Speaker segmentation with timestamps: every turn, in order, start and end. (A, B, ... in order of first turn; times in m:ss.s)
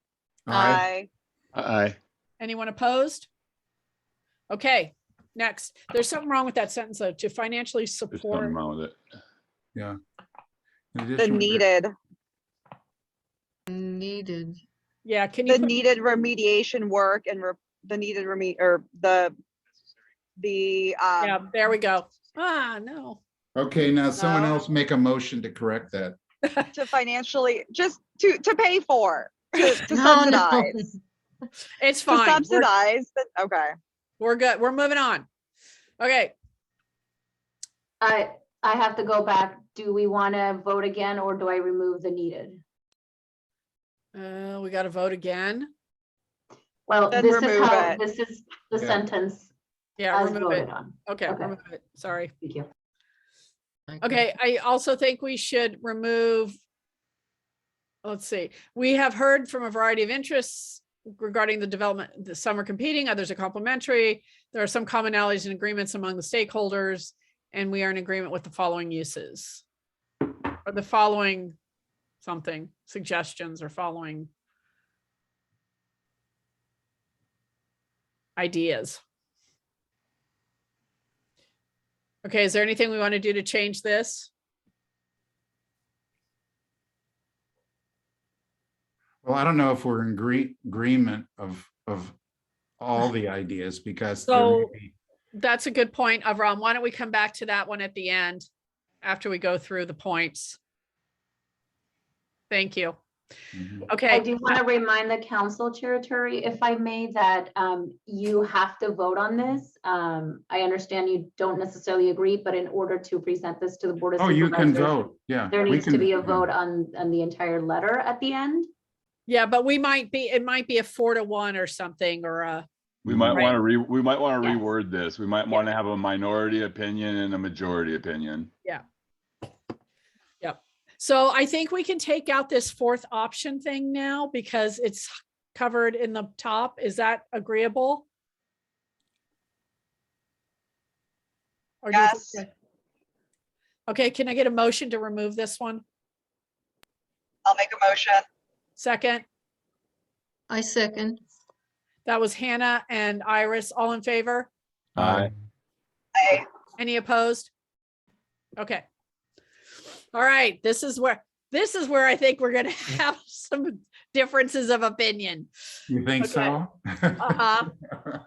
0:00.5-0:00.8 A
0:00.5-0:01.1 B
0:01.5-0:02.0 C
0:02.4-0:03.3 D
0:04.5-0:08.6 D
0:08.1-0:09.0 C
0:10.9-0:11.7 A
0:11.2-0:11.9 B
0:13.7-0:14.6 E
0:15.0-0:15.8 D
0:15.5-0:19.4 B
0:20.4-0:21.4 B
0:21.2-0:23.2 D
0:23.6-0:26.2 A
0:24.2-0:24.6 B
0:26.7-0:30.8 B
0:29.9-0:31.0 E
0:31.7-0:32.7 D
0:32.1-0:33.8 B
0:34.2-0:35.3 D
0:36.0-0:36.3 D
0:38.0-0:42.6 F
0:44.1-0:45.7 D
0:46.9-0:49.5 F
0:47.1-0:48.0 B
0:50.0-0:52.3 D
0:50.1-0:51.5 F
0:52.4-0:52.7 F
0:53.9-0:54.2 E
0:54.0-0:56.6 D
0:58.0-1:09.6 D
1:10.6-1:11.6 D
1:12.2-1:14.3 D
1:18.4-1:19.0 D
1:22.2-1:24.3 D
1:29.2-1:32.2 A
1:32.8-1:34.9 A
1:34.3-1:34.7 D
1:35.3-1:38.5 D
1:39.0-1:40.6 D
1:42.5-1:43.0 D
1:43.5-1:43.9 A
1:43.9-1:44.6 D
1:44.1-1:58.7 F
1:54.2-1:56.5 A
1:59.3-2:02.7 D
2:03.0-2:03.5 A
2:03.1-2:08.5 C
2:03.3-2:03.6 D
2:10.4-2:18.0 D
2:21.8-2:22.5 D
2:21.9-2:22.4 B
2:23.9-2:25.8 D
2:27.5-2:28.2 B
2:28.8-2:29.2 D
2:30.5-2:31.2 E
2:32.1-2:34.5 D
2:35.0-2:35.3 C
2:35.0-2:35.4 A
2:36.2-2:36.5 B
2:36.8-2:37.5 D
2:38.6-2:38.8 D
2:40.1-2:45.5 D
2:45.9-2:47.4 A
2:46.2-2:46.6 D
2:47.2-2:47.7 D